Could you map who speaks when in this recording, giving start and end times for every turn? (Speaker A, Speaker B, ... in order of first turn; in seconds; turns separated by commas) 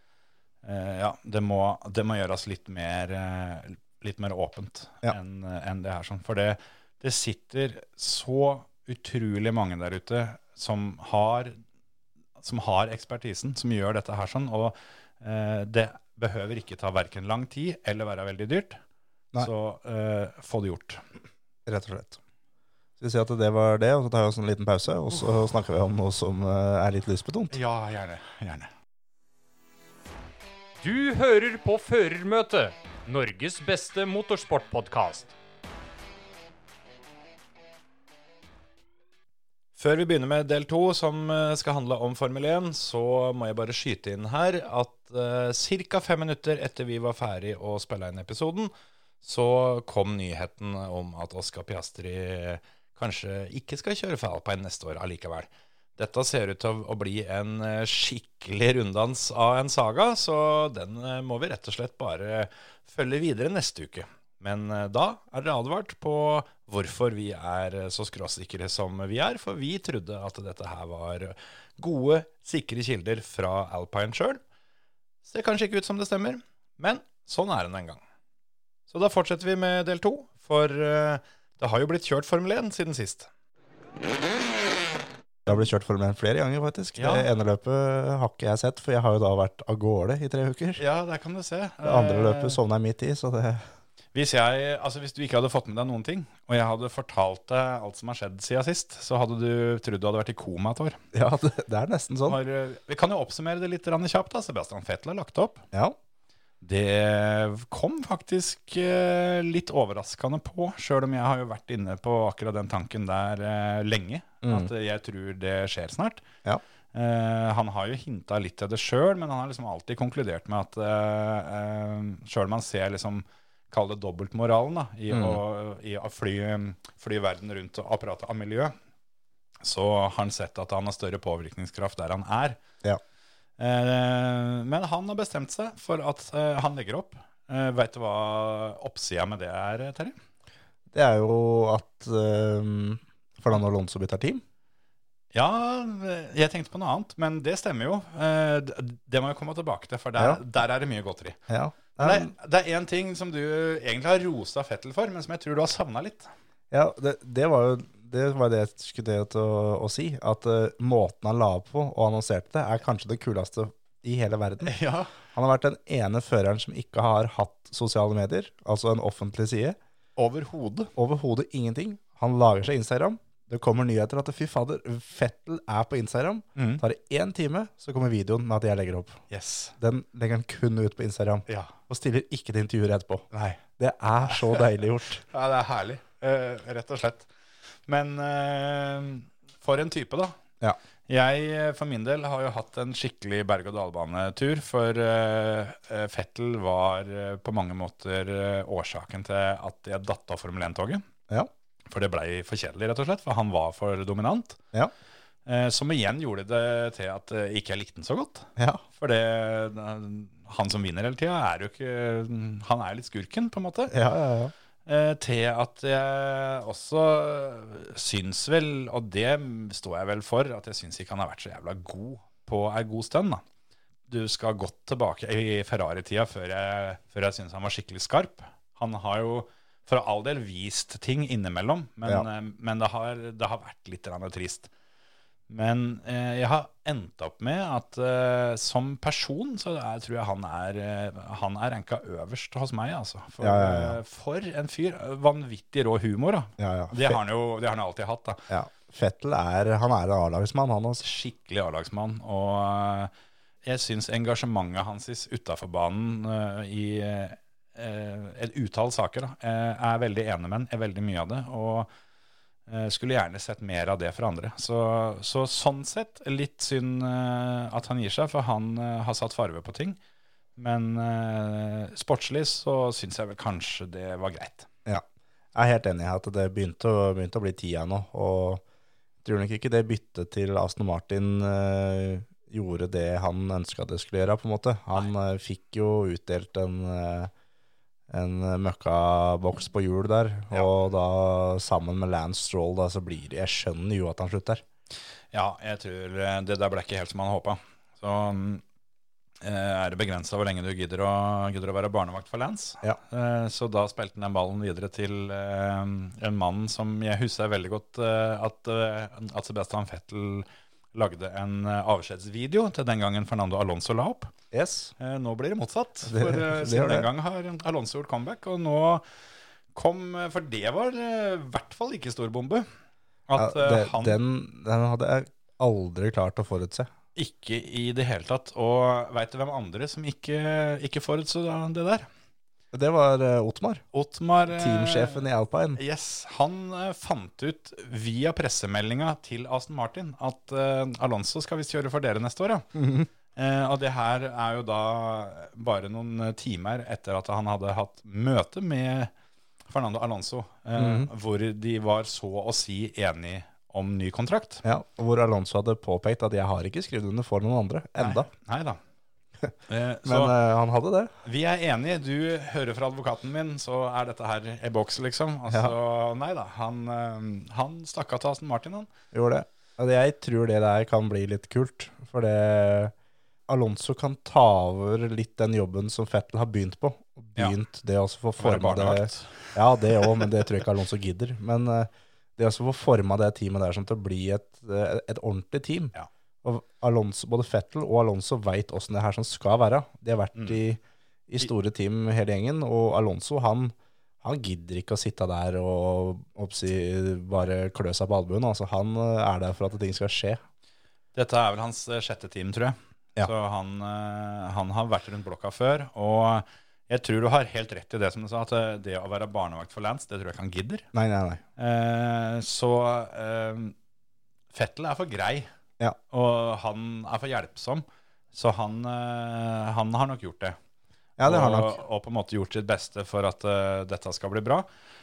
Speaker A: 0.6-11.6, Speaker A: 12.4-18.8, Speaker A: 19.4-21.0, Speaker B: 21.7-22.2, Speaker B: 23.0-27.6, Speaker A: 27.5-28.7, Speaker C: 30.8-35.3, Speaker A: 39.8-74.4, Speaker A: 75.2-78.0, Speaker A: 78.9-83.3, Speaker B: 85.5-90.8, Speaker A: 87.0-87.3, Speaker A: 90.8-92.6, Speaker B: 91.8-93.6, Speaker A: 94.1-101.0, Speaker B: 101.1-102.4, Speaker A: 102.3-105.6, Speaker A: 106.6-116.2, Speaker B: 114.4-114.7, Speaker A: 116.9-128.7, Speaker B: 125.1-125.4, Speaker A: 129.6-132.6, Speaker A: 133.6-140.2, Speaker B: 140.9-144.4, Speaker A: 145.3-151.4, Speaker B: 151.5-152.3, Speaker A: 152.0-156.3, Speaker B: 156.7-169.8, Speaker A: 164.6-165.1, Speaker A: 170.2-170.9, Speaker B: 171.0-179.2, Speaker A: 176.6-176.8, Speaker A: 179.3-179.7, Speaker B: 179.8-183.3, Speaker A: 181.5-181.7, Speaker A: 183.3-183.6, Speaker B: 183.8-185.2, Speaker A: 184.2-184.7, Speaker A: 185.3-187.3, Speaker A: 187.9-190.4, Speaker A: 191.1-201.0, Speaker A: 201.9-204.6, Speaker A: 205.5-213.9, Speaker B: 208.6-208.8, Speaker B: 213.9-214.5, Speaker A: 214.9-223.4, Speaker A: 224.1-234.7, Speaker A: 235.5-248.5, Speaker B: 243.4-244.0, Speaker B: 246.6-247.2, Speaker B: 248.5-251.0, Speaker A: 251.0-253.1, Speaker A: 253.7-261.9, Speaker A: 262.7-270.0, Speaker A: 270.6-274.7, Speaker B: 275.6-278.6, Speaker B: 279.2-287.3, Speaker B: 288.1-294.6, Speaker A: 295.3-298.6, Speaker A: 299.4-314.3, Speaker B: 314.5-314.9, Speaker A: 315.0-319.0, Speaker B: 316.1-317.1, Speaker A: 319.7-322.7, Speaker A: 323.3-324.2, Speaker B: 323.4-326.9, Speaker A: 327.2-332.1, Speaker B: 332.7-333.8, Speaker A: 333.9-342.7, Speaker B: 334.5-335.8, Speaker B: 342.8-343.1, Speaker A: 343.4-349.1, Speaker A: 349.7-354.6, Speaker B: 350.8-351.1, Speaker B: 354.6-358.3, Speaker A: 358.0-358.8, Speaker A: 359.7-360.4, Speaker B: 360.1-361.1, Speaker A: 361.2-368.9, Speaker B: 365.5-365.7, Speaker B: 369.1-372.9, Speaker B: 373.5-400.4, Speaker A: 378.4-380.2, Speaker A: 401.1-410.9, Speaker B: 410.9-411.4, Speaker A: 411.6-413.8, Speaker A: 414.5-415.5, Speaker A: 416.1-420.6, Speaker B: 421.2-421.8, Speaker A: 421.2-424.7